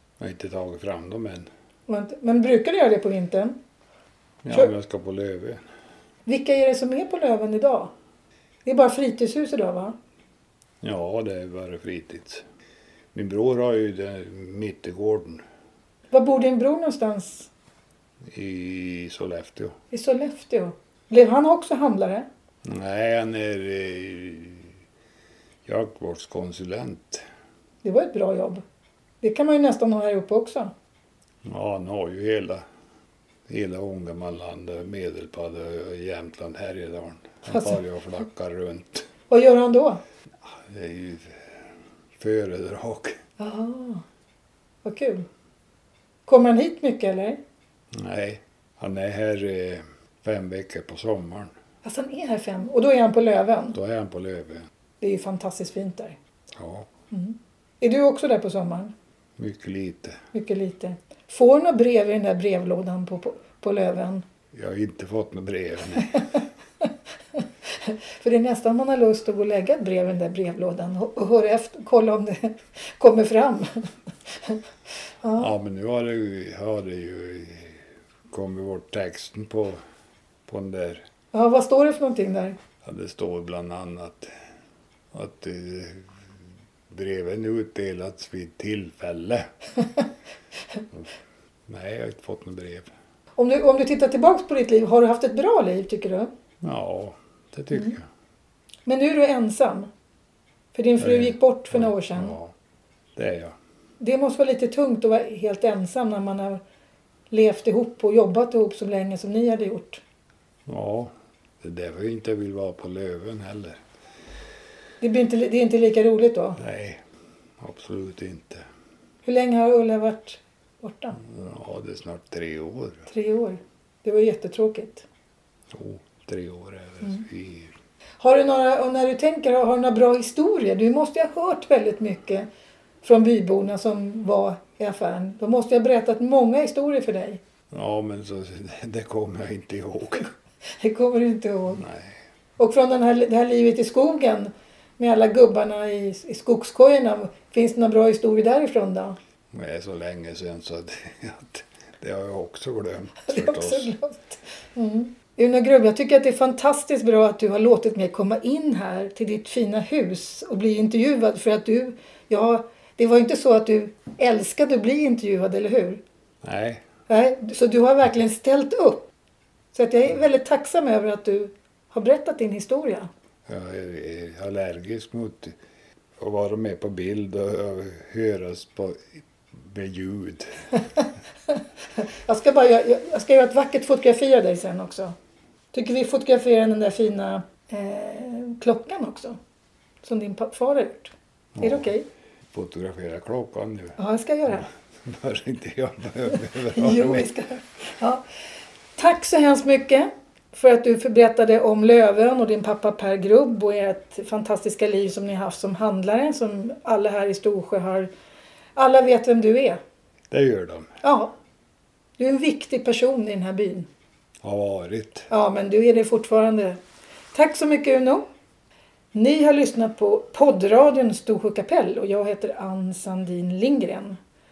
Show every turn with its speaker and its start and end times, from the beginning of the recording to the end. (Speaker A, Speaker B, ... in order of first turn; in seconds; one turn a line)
Speaker A: 0.2-1.5
Speaker B: 1.9-3.6
Speaker A: 4.4-5.6
Speaker B: 6.2-7.9
Speaker B: 8.6-9.9
Speaker A: 10.8-12.4
Speaker A: 13.1-15.4
Speaker B: 16.1-17.5
Speaker A: 18.3-19.8
Speaker B: 19.9-22.2
Speaker A: 22.6-24.7
Speaker A: 25.6-27.2
Speaker B: 27.8-28.6
Speaker B: 29.2-30.7
Speaker A: 31.4-32.6
Speaker A: 33.5-39.1
Speaker B: 37.5-37.8
Speaker B: 39.3-40.0
Speaker A: 40.4-41.6
Speaker A: 42.2-43.1
Speaker B: 43.4-44.0
Speaker B: 44.8-45.2
Speaker B: 46.2-47.4
Speaker A: 47.9-51.5
Speaker B: 51.8-53.8
Speaker A: 53.7-54.7
Speaker B: 55.0-56.2
Speaker A: 56.5-56.9
Speaker B: 57.1-58.9
Speaker A: 59.4-60.2
Speaker B: 60.3-64.2
Speaker A: 64.5-66.4
Speaker B: 66.1-74.6
Speaker B: 75.2-75.5
Speaker A: 75.4-79.8
Speaker A: 80.5-81.0
Speaker B: 81.3-82.6
Speaker A: 82.8-84.3
Speaker A: 85.1-86.1
Speaker A: 86.9-89.5
Speaker A: 91.7-92.9
Speaker B: 93.4-96.3
Speaker A: 96.6-98.0
Speaker B: 98.8-99.9
Speaker B: 100.7-102.3
Speaker A: 101.0-102.5
Speaker A: 103.2-103.5
Speaker B: 104.0-106.6
Speaker B: 107.3-110.0
Speaker A: 110.7-113.8
Speaker B: 115.0-116.6
Speaker A: 116.6-117.0
Speaker A: 117.6-118.7
Speaker B: 119.2-121.2
Speaker A: 121.2-123.1
Speaker B: 123.1-125.0
Speaker A: 125.7-127.7
Speaker B: 128.2-132.5
Speaker B: 133.0-137.4
Speaker A: 137.7-140.3
Speaker B: 140.8-141.8
Speaker A: 141.7-142.2
Speaker B: 142.6-149.2
Speaker A: 149.5-153.9
Speaker B: 153.2-166.0
Speaker A: 166.4-166.9
Speaker B: 167.1-169.1
Speaker B: 169.7-173.1
Speaker A: 173.5-175.6
Speaker A: 176.2-180.7
Speaker B: 181.0-185.1
Speaker B: 185.7-189.4
Speaker B: 190.0-192.0
Speaker A: 191.6-191.9
Speaker A: 192.5-197.3
Speaker B: 194.0-194.7
Speaker B: 196.6-198.2
Speaker B: 198.9-208.1
Speaker B: 208.8-209.8
Speaker A: 210.3-210.9
Speaker B: 211.0-211.3
Speaker B: 212.2-213.9
Speaker A: 214.4-215.3
Speaker B: 215.3-216.8
Speaker B: 217.3-218.2
Speaker B: 219.1-224.2